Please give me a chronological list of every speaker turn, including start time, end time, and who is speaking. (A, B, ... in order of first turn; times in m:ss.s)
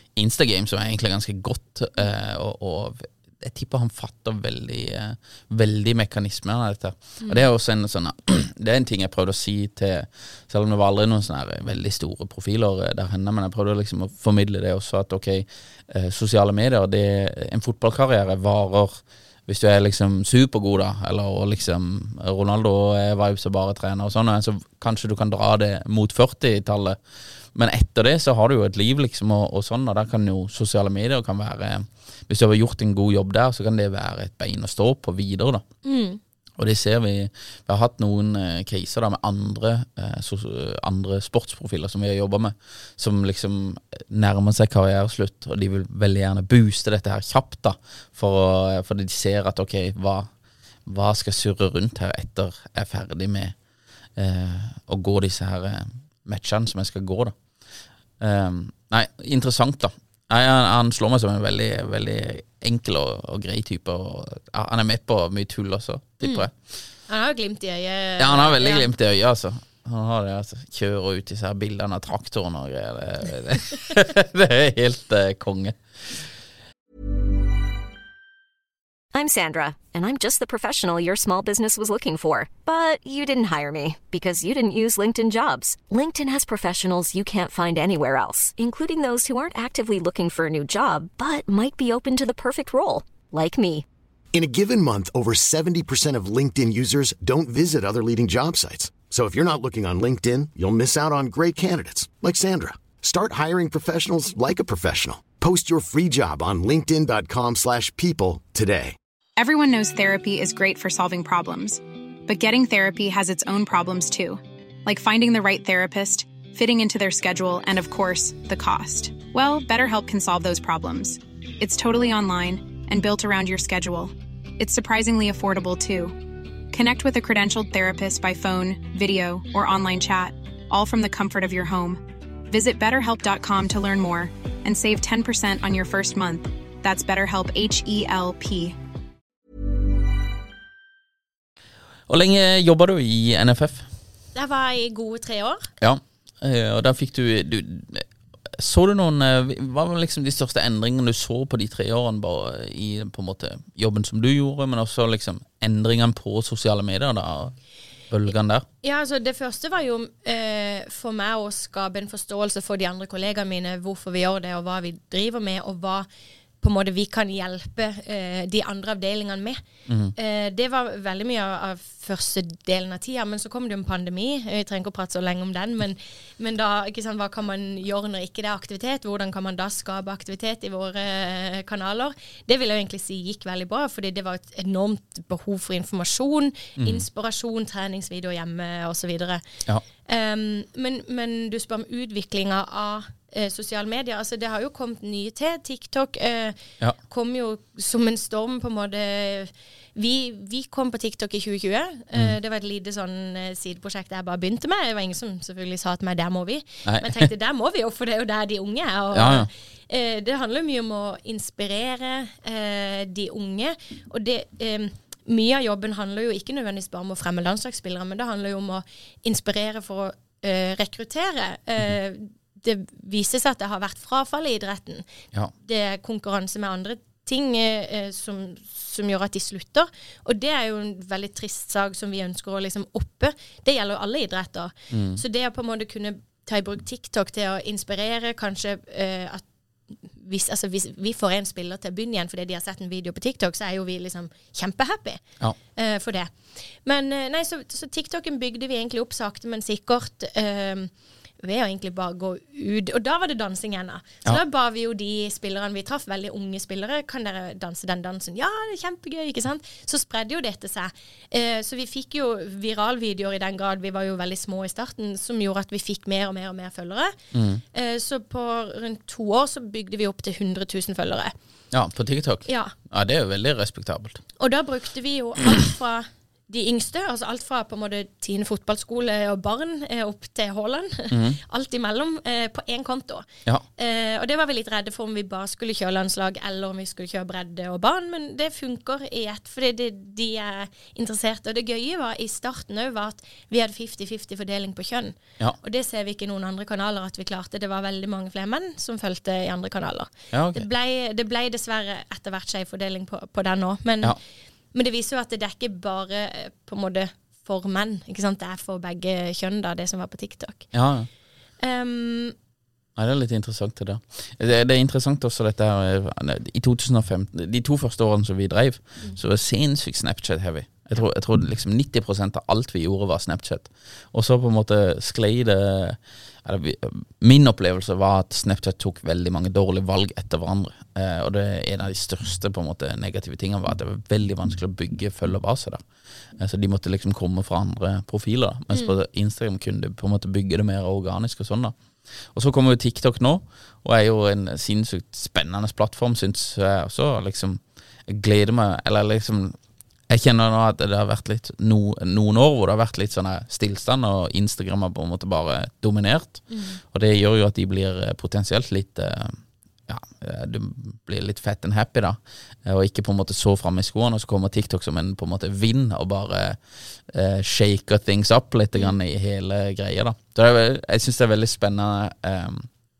0:00.2-0:27.0 A
0:07.2-0:07.5 B
0:27.6-0:35.6 A
0:35.8-0:36.2 B
0:36.6-0:50.3 A
0:50.9-0:53.6 A
0:54.2-0:57.4 A
0:58.2-1:06.5 A
1:06.2-1:06.5 B
1:07.1-1:08.9 B
1:08.2-1:15.8 A
1:19.1-1:33.8 C
1:34.3-1:49.0 D
1:49.4-2:18.8 E
2:22.1-2:23.9 A
2:24.4-2:25.7 B
2:25.8-2:28.0 A
2:28.6-2:37.6 A
2:38.1-2:38.6 A
2:38.8-2:46.1 B
2:46.6-2:49.6 B
2:49.9-2:50.1 A
2:50.2-3:09.4 B
3:06.8-3:07.0 A
3:10.1-3:45.1 B
3:26.9-3:27.3 A
3:29.1-3:29.5 A
3:45.6-3:59.4 B
3:54.9-3:55.2 A
4:00.0-4:05.2 B
4:05.8-4:06.3 B
4:06.8-4:27.2 B
4:27.3-4:27.6 A
4:27.7-4:31.3 B
4:31.7-4:34.2 A
4:32.5-4:32.7 B
4:34.4-4:43.3 B
4:41.1-4:41.4 A
4:43.8-5:04.2 B
5:00.3-5:00.6 A
5:04.7-5:10.7 B
5:10.7-5:11.1 A
5:11.6-5:12.4 B
5:13.0-5:35.8 A
5:36.4-5:41.8 A
5:42.3-5:49.6 A
5:50.1-6:06.6 A
5:56.5-5:56.8 B
6:07.1-6:12.7 A